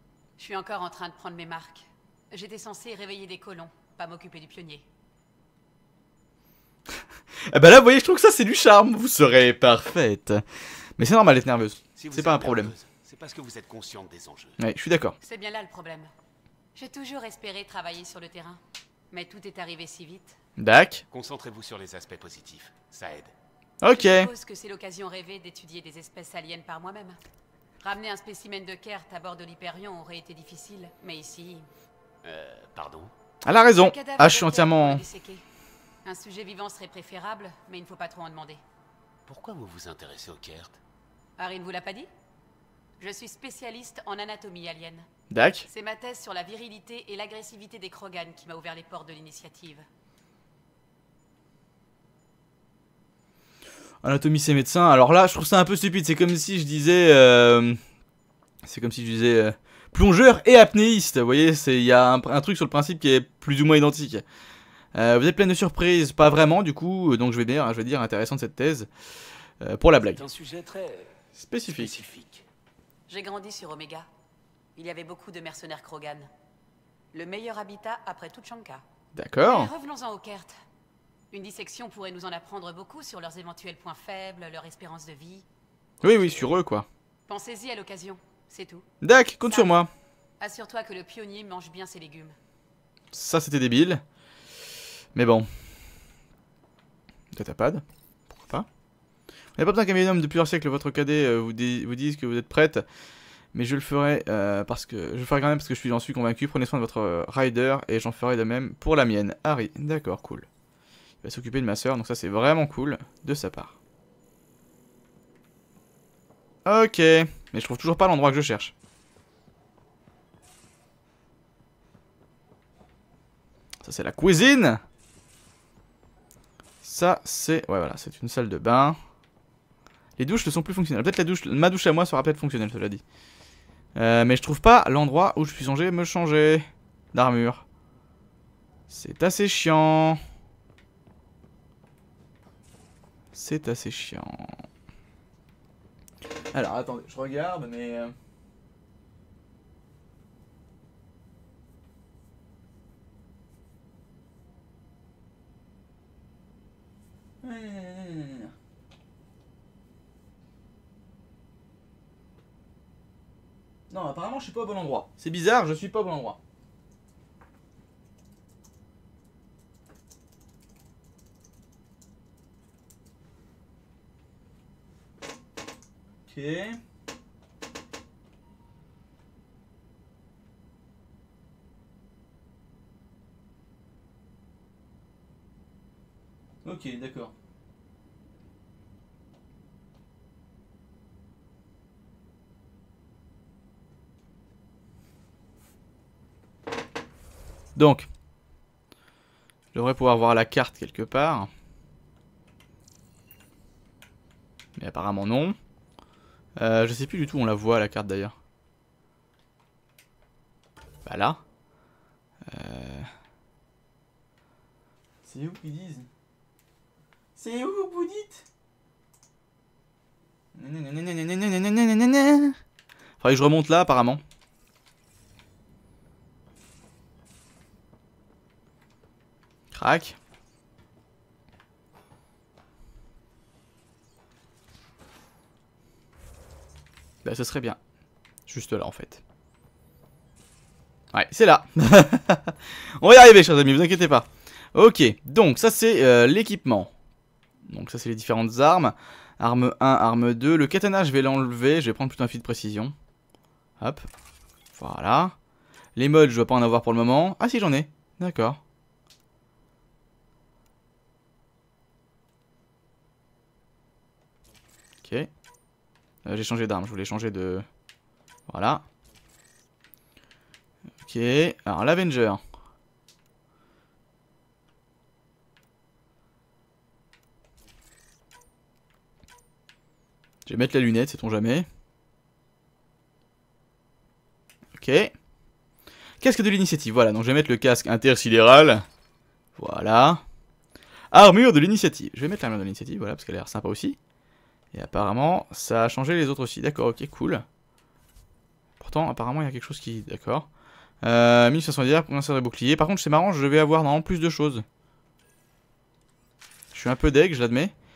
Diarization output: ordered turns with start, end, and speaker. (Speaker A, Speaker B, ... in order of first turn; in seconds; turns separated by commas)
Speaker A: 0.4-4.8, Speaker B: 7.4-10.4, Speaker B: 11.0-12.7, Speaker C: 12.0-14.6, Speaker B: 14.6-15.1, Speaker A: 15.2-16.1, Speaker A: 16.7-18.6, Speaker A: 19.1-20.4, Speaker B: 20.6-21.0, Speaker C: 21.1-23.3, Speaker B: 23.8-24.3, Speaker A: 23.8-27.2, Speaker A: 27.8-31.6, Speaker C: 32.2-33.1, Speaker B: 33.4-35.0, Speaker A: 33.7-35.4, Speaker A: 36.0-38.6, Speaker C: 39.3-40.8, Speaker A: 41.4-42.1, Speaker A: 43.0-45.0, Speaker B: 45.3-45.7, Speaker A: 45.7-49.8, Speaker B: 54.0-57.8, Speaker B: 58.6-64.2, Speaker B: 64.9-68.9, Speaker B: 69.6-70.2, Speaker C: 70.1-71.1, Speaker B: 71.4-72.0, Speaker C: 71.7-72.4, Speaker A: 73.1-74.1, Speaker A: 74.8-76.3, Speaker A: 77.1-78.8, Speaker B: 79.2-79.7, Speaker A: 79.4-80.6, Speaker A: 81.3-85.4, Speaker B: 86.0-86.9, Speaker A: 87.3-88.8, Speaker B: 89.0-89.9, Speaker A: 89.4-89.8, Speaker A: 90.4-92.3, Speaker B: 93.1-94.0, Speaker B: 95.1-95.5, Speaker B: 97.3-98.7, Speaker B: 99.6-102.8, Speaker B: 103.5-110.5, Speaker B: 111.2-113.7, Speaker B: 116.6-118.7, Speaker B: 123.8-124.8, Speaker B: 126.8-129.0, Speaker B: 130.2-133.0, Speaker B: 133.9-137.6, Speaker B: 138.9-140.2, Speaker B: 143.3-144.6, Speaker B: 146.5-148.1, Speaker B: 157.4-158.5, Speaker B: 163.9-166.4, Speaker B: 176.2-176.8, Speaker B: 186.6-187.3, Speaker B: 197.8-198.1, Speaker B: 199.7-201.5, Speaker B: 204.8-205.6, Speaker B: 206.6-208.3, Speaker B: 211.0-211.4, Speaker B: 212.4-213.1, Speaker B: 215.2-216.1, Speaker B: 217.3-218.4, Speaker B: 220.5-222.6, Speaker B: 223.2-224.2, Speaker B: 229.7-230.2, Speaker B: 237.2-237.8, Speaker B: 238.5-239.2, Speaker B: 241.1-246.9, Speaker B: 247.7-252.9, Speaker B: 253.8-254.1, Speaker B: 254.7-255.3, Speaker B: 255.9-258.6, Speaker B: 265.0-265.3, Speaker B: 266.2-267.6, Speaker B: 268.5-268.8, Speaker B: 271.0-272.4, Speaker B: 280.4-281.7, Speaker B: 284.7-285.1, Speaker B: 286.2-288.9, Speaker B: 289.6-290.2, Speaker B: 291.1-294.0, Speaker B: 294.7-297.4, Speaker B: 298.8-300.5, Speaker B: 301.0-304.6, Speaker B: 306.7-307.7